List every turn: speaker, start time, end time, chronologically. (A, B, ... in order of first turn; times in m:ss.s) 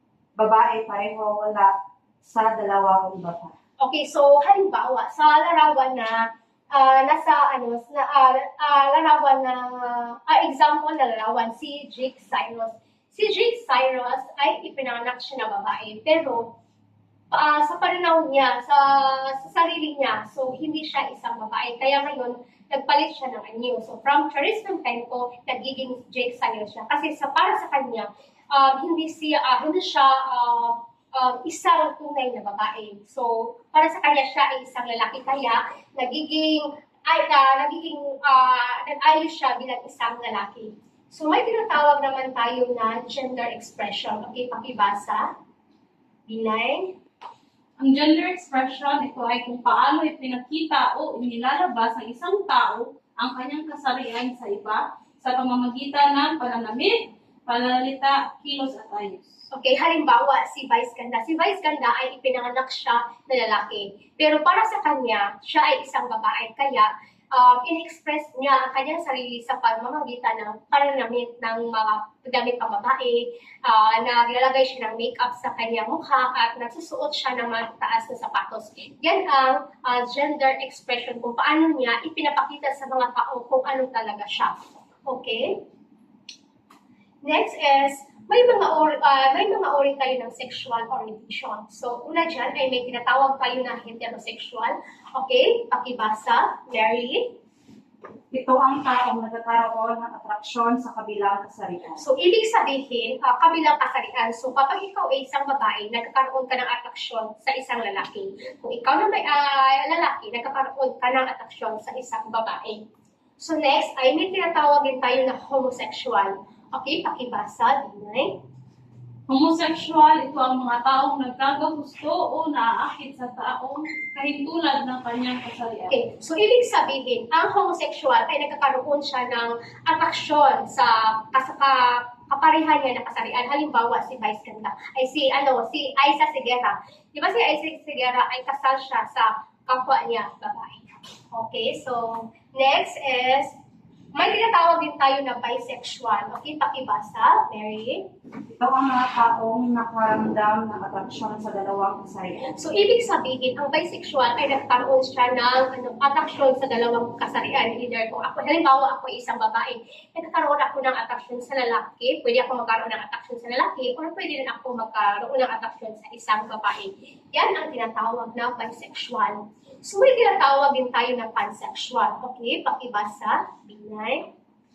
0:00.4-0:03.5 A
0:03.8-0:16.5 B
0:17.3-0:45.2 B
0:46.3-0:46.9 B
0:47.8-0:59.4 C
0:59.5-1:24.5 B
1:25.1-1:25.6 B
1:27.2-1:37.3 B
1:38.3-1:42.0 A
1:42.0-1:52.8 B
1:53.4-1:58.4 B
1:59.3-2:06.0 C
2:05.9-2:23.5 B
2:24.1-2:28.0 B
2:28.6-2:32.5 A
2:32.5-2:54.3 B